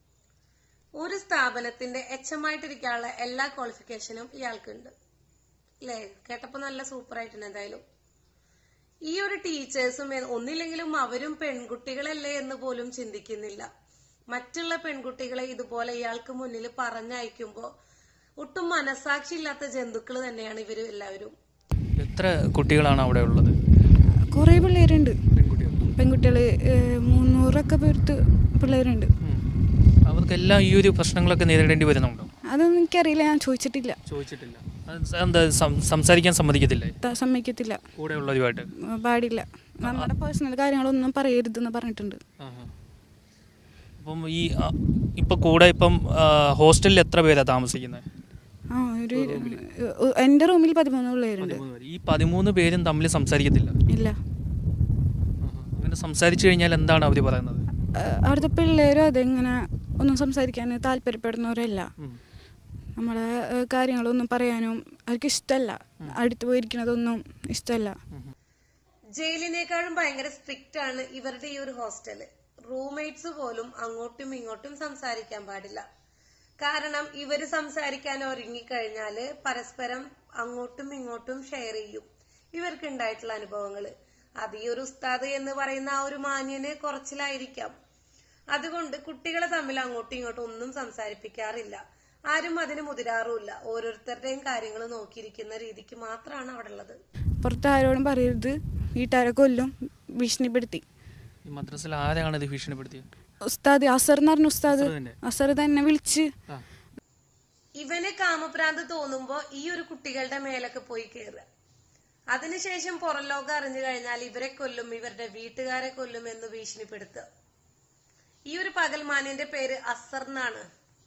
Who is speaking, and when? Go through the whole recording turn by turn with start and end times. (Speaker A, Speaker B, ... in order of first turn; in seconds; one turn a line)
Speaker A: 0.9-4.9
Speaker A: 5.8-7.8
Speaker A: 9.1-13.7
Speaker A: 14.3-17.7
Speaker A: 18.4-21.3
Speaker B: 22.0-23.6
Speaker C: 24.2-25.1
Speaker B: 25.4-25.9
Speaker C: 25.9-29.1
Speaker B: 30.1-32.3
Speaker C: 32.5-34.0
Speaker B: 34.1-36.9
Speaker C: 37.0-37.8
Speaker B: 38.0-38.7
Speaker C: 38.8-42.2
Speaker B: 39.8-40.1
Speaker B: 42.4-42.7
Speaker B: 44.0-48.0
Speaker C: 48.7-51.6
Speaker B: 49.1-49.6
Speaker B: 51.4-53.7
Speaker C: 53.9-54.2
Speaker B: 55.4-57.6
Speaker C: 57.9-61.9
Speaker C: 63.0-68.0
Speaker A: 69.2-75.8
Speaker A: 76.6-87.7
Speaker A: 88.5-97.0
Speaker C: 97.4-100.8
Speaker B: 101.5-103.0
Speaker C: 103.5-106.3
Speaker B: 104.7-105.2
Speaker A: 107.8-111.4
Speaker A: 112.3-117.2
Speaker A: 118.5-120.6